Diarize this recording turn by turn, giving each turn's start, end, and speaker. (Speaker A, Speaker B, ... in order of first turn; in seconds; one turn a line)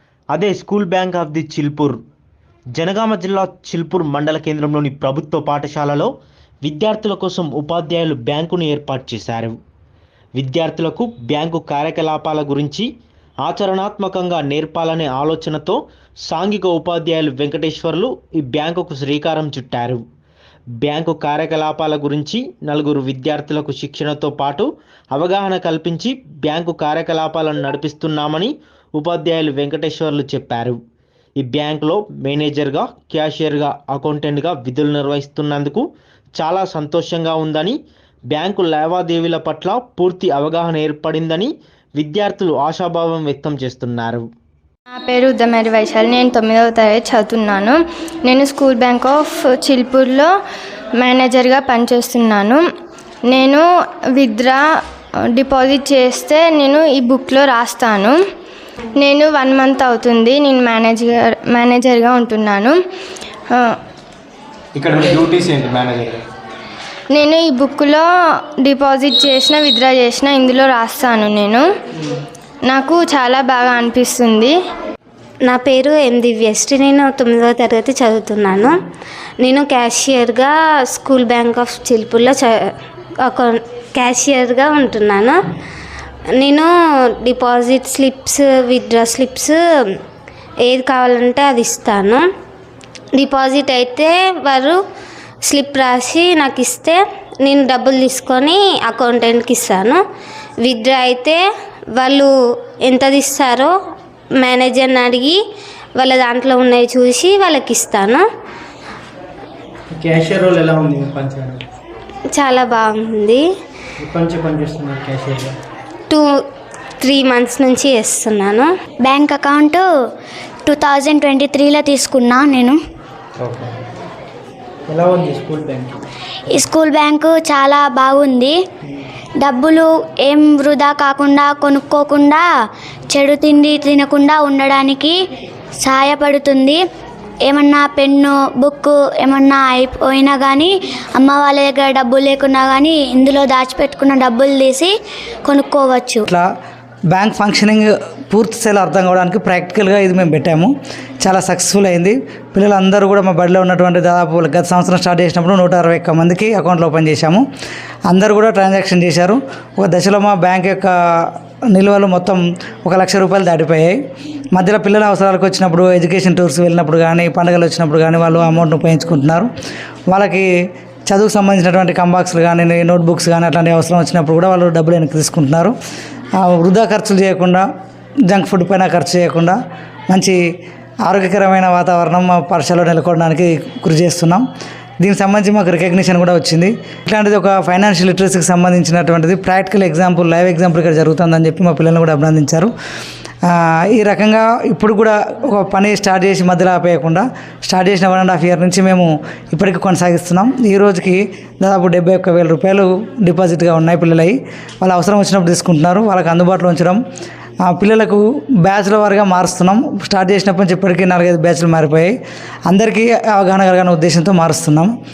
Speaker A: 0.3-2.0
Speaker A: 2.8-6.1
Speaker A: 6.6-9.6
Speaker A: 10.4-12.9
Speaker A: 13.4-20.0
Speaker A: 20.8-30.8
Speaker A: 31.4-35.8
Speaker A: 36.4-37.8
Speaker A: 38.3-44.2
Speaker B: 45.0-50.3
Speaker B: 51.0-52.6
Speaker B: 53.3-53.6
Speaker B: 54.2-54.6
Speaker B: 55.4-58.2
Speaker B: 59.0-62.8
Speaker C: 64.8-66.2
Speaker B: 67.1-68.1
Speaker B: 68.6-71.7
Speaker B: 72.7-74.5
Speaker D: 75.5-78.8
Speaker D: 79.4-85.4
Speaker D: 86.4-86.7
Speaker D: 87.2-89.9
Speaker D: 90.7-92.2
Speaker D: 93.2-94.8
Speaker D: 95.5-100.0
Speaker D: 100.6-101.4
Speaker D: 102.0-102.3
Speaker D: 102.8-103.7
Speaker D: 104.4-105.4
Speaker D: 106.0-108.2
Speaker C: 109.9-111.6
Speaker D: 112.4-113.4
Speaker C: 114.0-115.6
Speaker D: 117.0-118.7
Speaker E: 119.0-119.8
Speaker E: 120.7-122.8
Speaker C: 123.4-123.7
Speaker C: 124.9-126.0
Speaker E: 126.5-128.6
Speaker E: 129.4-132.4
Speaker E: 133.1-135.2
Speaker E: 135.8-136.8
Speaker E: 137.5-144.9
Speaker E: 145.5-146.3
Speaker F: 147.1-150.7
Speaker F: 151.2-157.4
Speaker F: 158.1-164.0
Speaker F: 164.5-169.5
Speaker F: 170.1-170.5
Speaker F: 171.1-175.8
Speaker F: 176.4-177.7
Speaker F: 178.3-179.6
Speaker F: 180.1-180.4
Speaker F: 181.1-184.4
Speaker F: 185.0-192.7
Speaker F: 193.5-207.0
Speaker F: 207.7-212.2
Speaker F: 212.7-214.9